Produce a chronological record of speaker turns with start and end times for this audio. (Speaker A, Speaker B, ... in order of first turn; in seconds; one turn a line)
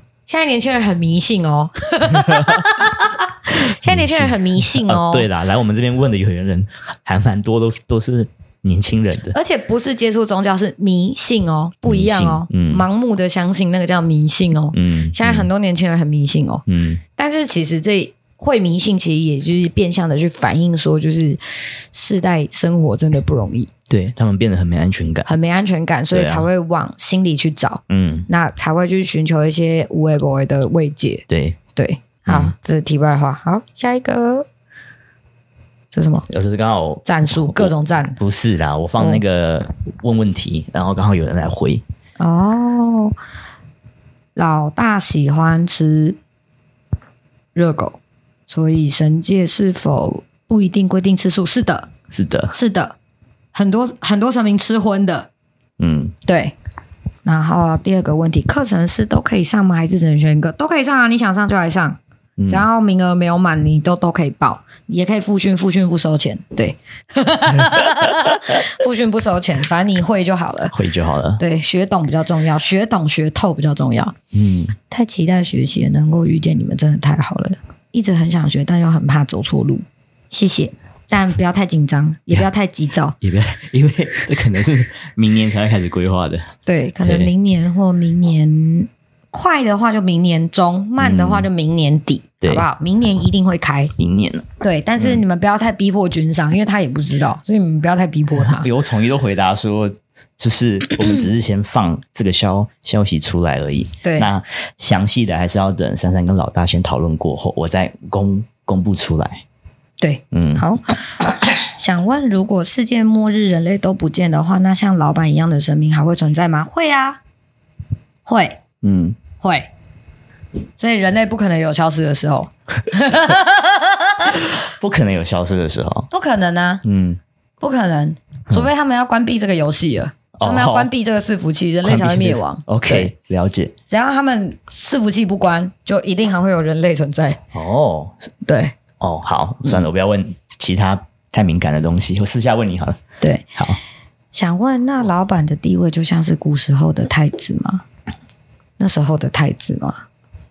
Speaker A: 0.3-5.3
Speaker B: 2.2-2.6
Speaker B: 3.8-9.3
Speaker A: 9.3-16.6
Speaker B: 11.8-12.8
Speaker B: 14.7-15.5
Speaker B: 16.7-17.0
Speaker A: 17.1-21.4
Speaker A: 21.9-23.7
Speaker B: 23.9-25.3
Speaker A: 25.2-34.5
Speaker B: 26.1-26.5
Speaker B: 27.9-28.3
Speaker B: 31.3-31.6
Speaker B: 32.2-32.5
Speaker A: 35.9-36.3
Speaker B: 36.3-41.8
Speaker A: 37.0-38.2
Speaker A: 42.2-43.1
Speaker A: 44.4-46.2
Speaker A: 47.5-51.9
Speaker B: 52.1-52.5
Speaker A: 52.5-53.0
Speaker A: 53.5-55.3
Speaker B: 55.8-56.1
Speaker A: 56.2-56.5
Speaker A: 57.2-70.7
Speaker B: 62.4-62.6
Speaker B: 67.7-68.5
Speaker B: 70.7-71.4
Speaker A: 71.4-74.1
Speaker B: 74.3-74.7
Speaker A: 74.9-83.2
Speaker B: 83.2-87.3
Speaker A: 86.7-93.9
Speaker B: 91.0-91.5
Speaker B: 92.4-92.7
Speaker B: 94.0-94.5
Speaker A: 94.6-98.7
Speaker B: 95.0-95.2
Speaker B: 98.4-109.4
Speaker A: 104.0-104.3
Speaker A: 110.0-117.2
Speaker B: 110.3-110.7
Speaker A: 118.2-118.6
Speaker B: 118.8-119.2
Speaker A: 119.4-119.7
Speaker A: 120.8-124.4
Speaker B: 124.7-126.1
Speaker A: 126.1-126.8
Speaker B: 126.8-127.2
Speaker A: 127.6-133.1
Speaker B: 130.4-130.9
Speaker B: 131.8-133.7
Speaker A: 133.9-137.4
Speaker B: 137.5-138.3
Speaker A: 138.4-138.7
Speaker B: 139.0-143.0
Speaker A: 143.2-143.4
Speaker A: 144.3-147.8
Speaker A: 148.8-150.0